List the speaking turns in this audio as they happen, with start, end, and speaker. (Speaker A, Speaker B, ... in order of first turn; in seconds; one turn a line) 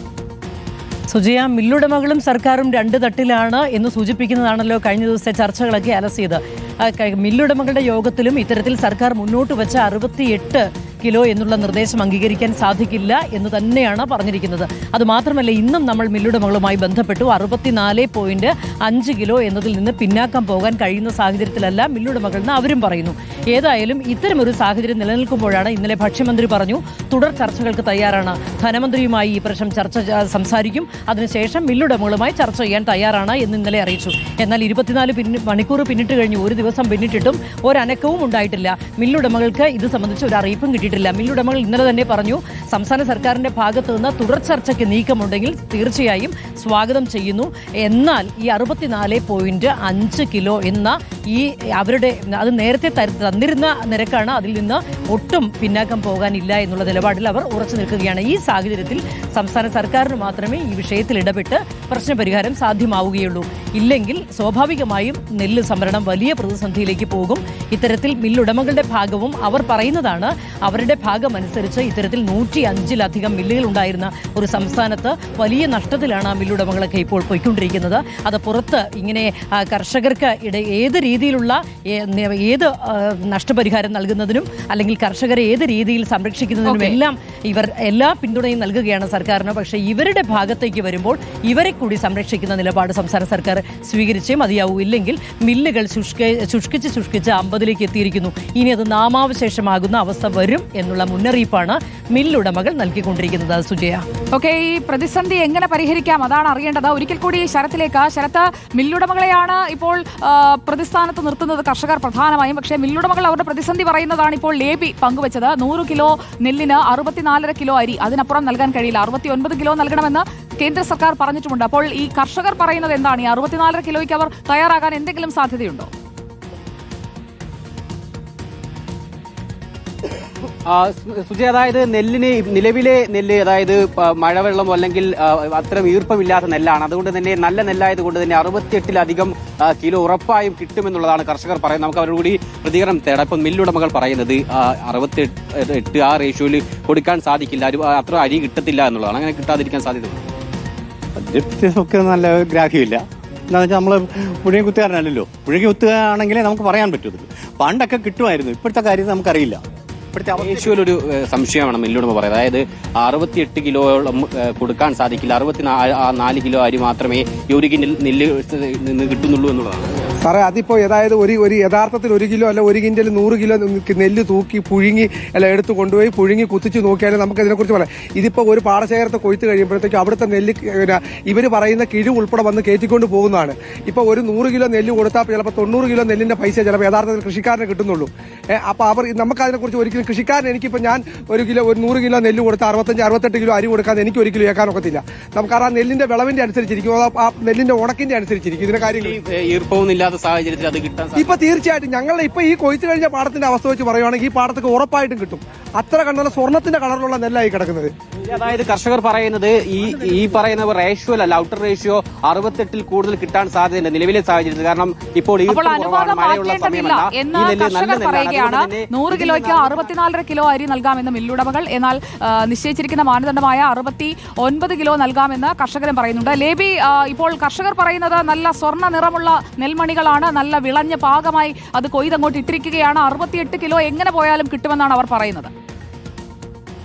Speaker A: 1.1-104.0
Speaker B: 86.7-87.0
Speaker B: 104.3-125.9
Speaker C: 130.7-150.2
Speaker D: 151.3-159.6
Speaker D: 160.1-160.7
Speaker C: 160.3-170.1
Speaker E: 170.2-199.2
Speaker C: 198.8-201.3
Speaker E: 201.2-207.9
Speaker C: 208.3-219.8
Speaker B: 215.5-235.5